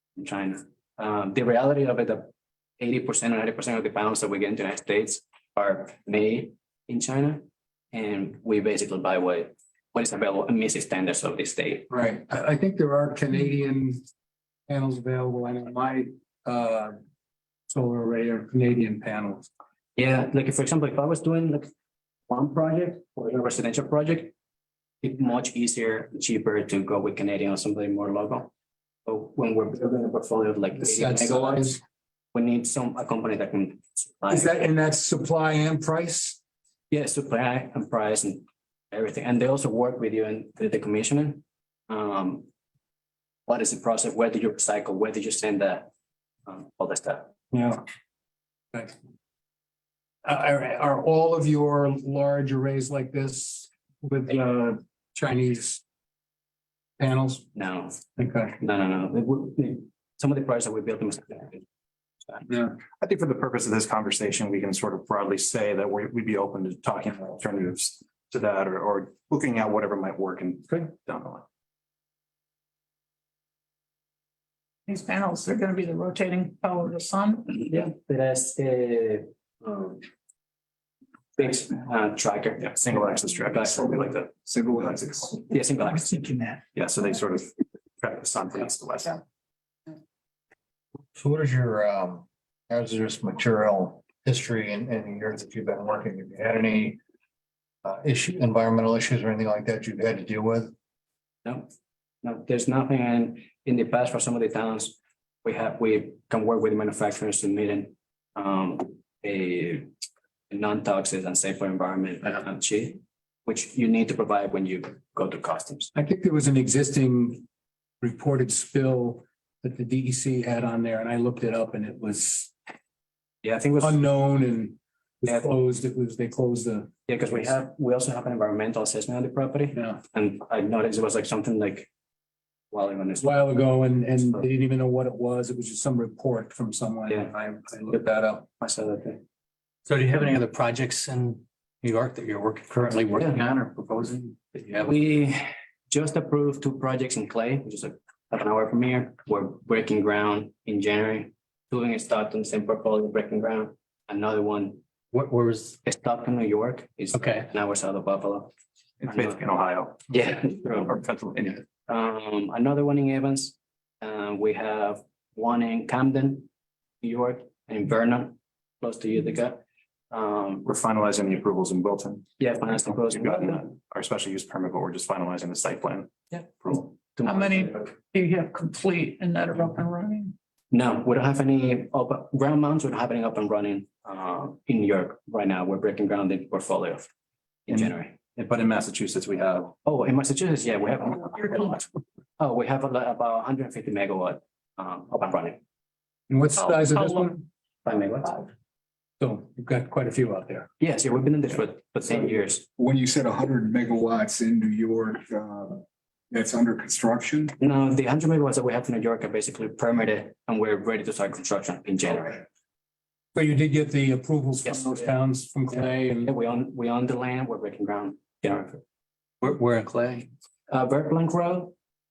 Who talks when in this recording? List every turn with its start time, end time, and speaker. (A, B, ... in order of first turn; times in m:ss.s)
0:00.2-0:02.3 A
0:02.8-0:11.9 A
0:12.2-0:12.8 B
0:13.5-0:14.0 B
0:15.7-0:16.9 B
0:17.9-0:19.4 B
0:20.0-0:21.7 A
0:22.3-0:24.3 A
0:25.0-0:28.5 A
0:29.0-0:31.8 A
0:30.9-0:31.7 B
0:32.3-0:34.6 A
0:34.3-0:36.4 B
0:36.9-0:42.5 A
0:43.5-0:45.9 A
0:46.4-0:47.3 A
0:47.5-0:47.8 B
0:50.2-0:55.8 B
0:57.0-0:57.4 B
0:57.5-0:58.0 A
0:58.2-0:58.5 B
0:58.6-1:01.6 A
1:02.9-1:11.4 C
1:14.9-1:17.6 D
1:17.5-1:20.0 A
1:21.4-1:23.6 A
1:22.6-1:24.3 C
1:24.4-1:25.5 E
1:25.4-1:26.6 A
1:26.7-1:29.2 C
1:31.1-1:37.0 F
1:37.8-1:40.7 F
1:41.4-1:41.7 A
1:42.2-1:49.9 A
1:50.5-1:55.9 A
1:56.2-1:57.4 B
1:58.0-2:02.5 B
2:03.4-2:04.0 A
2:03.8-2:06.9 B
2:07.1-2:11.9 A
2:12.7-2:13.3 A
2:13.2-2:18.4 B
2:17.9-2:19.2 A
2:19.8-2:24.9 G
2:24.6-2:34.8 A
2:35.1-2:35.8 G
2:35.8-2:38.5 A
2:37.1-2:37.4 G
2:39.0-2:41.6 C
2:39.1-2:39.4 A
2:40.1-2:41.0 A
2:41.8-2:46.5 A
2:47.0-2:50.6 A
2:50.6-2:56.9 C
2:52.4-2:53.6 A
2:57.0-2:57.9 A
2:57.2-3:00.3 D
3:00.7-3:07.1 A
3:07.7-3:08.2 A
3:08.3-3:09.7 C
3:09.8-3:11.8 A
3:12.4-3:15.6 A
3:16.3-3:17.3 B
3:16.6-3:17.3 A
3:17.8-3:18.5 A
3:19.2-3:20.7 B
3:20.8-3:22.6 A
3:22.8-3:27.5 E
3:27.6-3:32.4 A
3:33.3-3:36.2 B
3:34.6-3:35.1 A
3:35.7-3:38.7 A
3:39.4-3:40.3 G
3:40.7-3:41.7 A